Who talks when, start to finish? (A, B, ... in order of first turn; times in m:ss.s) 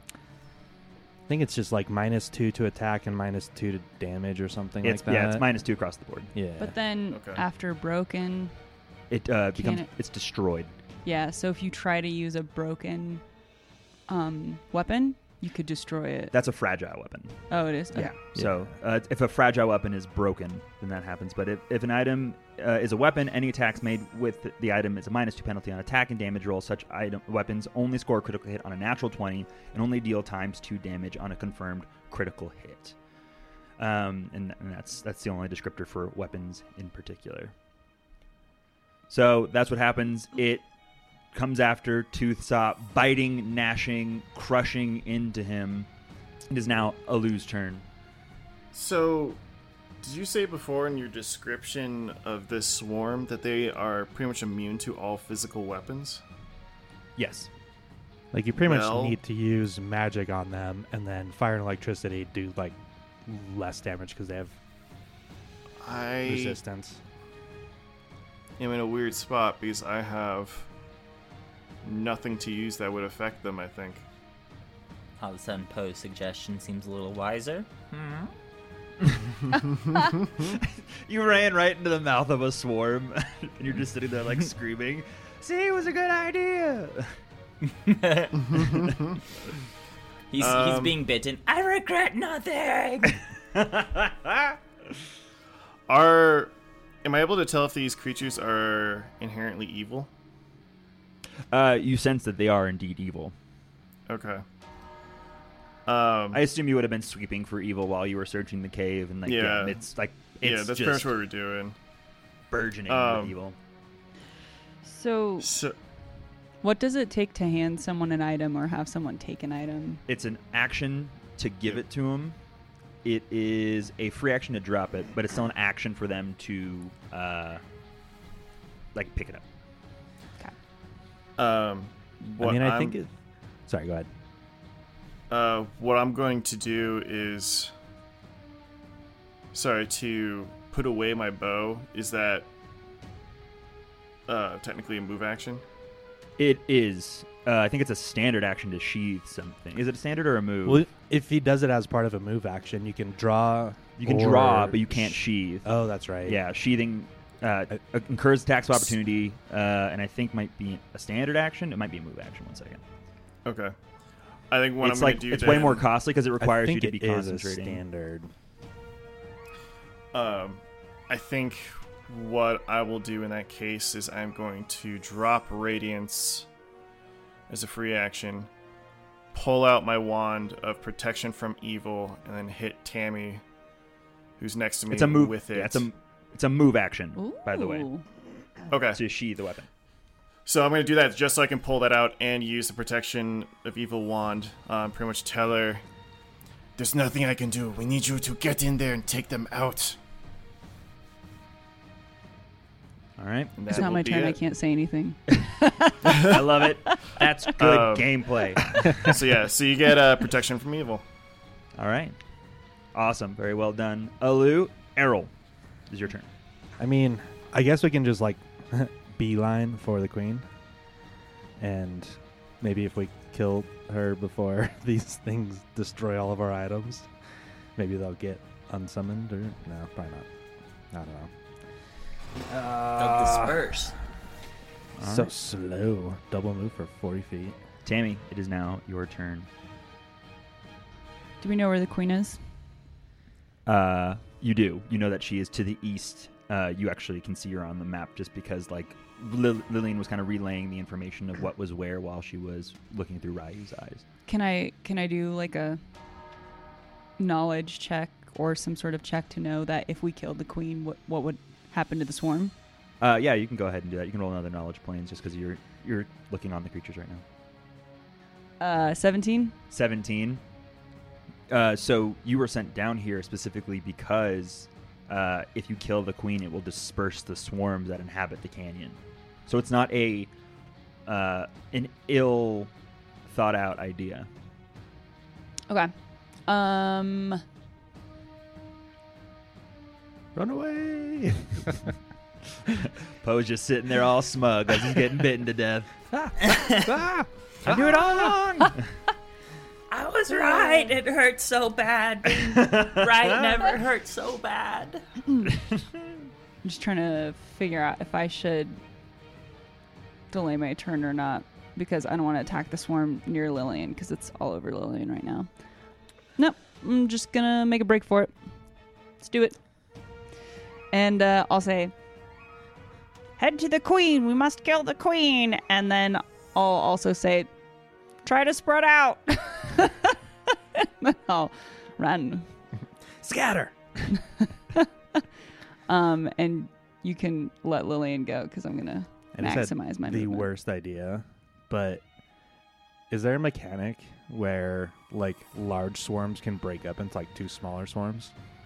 0:01.3-0:05.5 A
0:04.8-0:06.3 B
0:06.3-0:06.8 A
0:06.6-0:08.5 C
0:07.1-0:07.4 D
0:09.1-0:10.7 B
0:09.6-0:09.9 C
0:11.0-0:13.2 C
0:14.1-0:16.3 C
0:16.3-0:17.4 B
0:17.5-0:18.2 C
0:17.9-0:33.0 B
0:18.3-0:18.8 A
0:33.8-0:37.5 B
0:39.1-0:40.6 B
0:41.3-0:45.9 B
0:46.5-0:47.8 B
0:48.7-0:49.4 D
0:50.0-0:56.2 D
0:57.2-0:57.5 B
0:58.3-1:04.6 A
0:58.6-0:59.2 D
1:05.8-1:06.6 D
1:06.2-1:07.0 A
1:08.6-1:10.7 D
1:11.8-1:14.0 D
1:15.2-1:18.3 E
1:20.4-1:27.1 B
1:27.7-1:28.6 E
1:28.5-1:29.1 D
1:30.3-1:33.2 E
1:30.4-1:31.0 D
1:33.5-1:34.6 B
1:35.9-1:40.1 D
1:41.5-1:43.3 B
1:44.1-1:44.4 D
1:45.9-1:46.4 D
1:46.3-1:51.1 B
1:49.2-1:49.8 D
1:50.4-1:51.8 D
1:52.5-1:53.6 B
1:52.9-1:53.4 D
1:54.8-1:55.5 C
1:55.4-1:55.8 D
1:56.6-2:00.0 C
2:00.1-2:02.4 B
2:03.0-2:07.6 B
2:08.9-2:09.4 B
2:11.4-2:13.0 D
2:12.4-2:13.1 A
2:13.7-2:14.1 A
2:15.3-2:17.7 D
2:19.5-2:22.5 D
2:24.3-2:25.6 D
2:26.4-2:30.8 B
2:30.6-2:36.4 A
2:34.0-2:35.7 B
2:36.2-2:42.8 B
2:43.4-2:43.8 D
2:44.5-2:45.9 D
2:44.8-2:47.8 B
2:46.4-2:48.3 A
2:50.1-2:56.5 D
2:57.5-2:58.5 D
2:59.3-3:03.4 D
3:04.4-3:05.9 D
3:04.9-3:07.9 B
3:07.2-3:08.0 C
3:08.7-3:09.0 D
3:08.9-3:09.7 B
3:10.5-3:15.8 D
3:16.8-3:20.0 D
3:23.2-3:24.0 B
3:23.6-3:24.4 D
3:23.7-3:26.2 C
3:26.0-3:26.4 D
3:26.1-3:29.2 B
3:26.9-3:27.2 C
3:27.6-3:28.2 D
3:29.0-3:31.0 D
3:31.8-3:32.2 B
3:32.9-3:35.3 B
3:35.9-3:36.3 B
3:36.8-3:40.5 A
3:41.6-3:47.1 A
3:47.8-3:50.3 A
3:50.9-3:51.3 A
3:52.5-3:53.8 A
3:53.0-3:54.0 E
3:55.0-3:55.3 B
3:55.0-3:57.6 A
3:57.8-3:59.5 B
4:01.4-4:02.4 C
4:03.7-4:14.0 B
4:14.3-4:15.8 C
4:17.2-4:22.5 C
4:23.0-4:27.2 B
4:28.6-4:29.6 C
4:29.7-4:30.4 B
4:31.5-4:40.3 B
4:41.1-4:42.7 B
4:43.3-4:44.3 B
4:46.5-4:47.4 C
4:50.4-4:51.9 A
4:53.2-4:55.9 B
4:56.1-4:58.7 A
4:56.4-4:56.8 E
4:57.6-4:58.7 B
4:59.9-5:05.0 E
5:00.4-5:00.9 C
5:02.3-5:03.3 B
5:06.6-5:08.8 C
5:10.3-5:15.5 C
5:16.4-5:18.3 C
5:19.2-5:19.6 C
5:20.9-5:21.9 C
5:23.4-5:27.5 C
5:28.2-5:32.5 C
5:33.2-5:33.8 A
5:34.1-5:35.2 C
5:35.9-5:40.5 C
5:39.3-5:42.0 A
5:43.1-5:48.3 A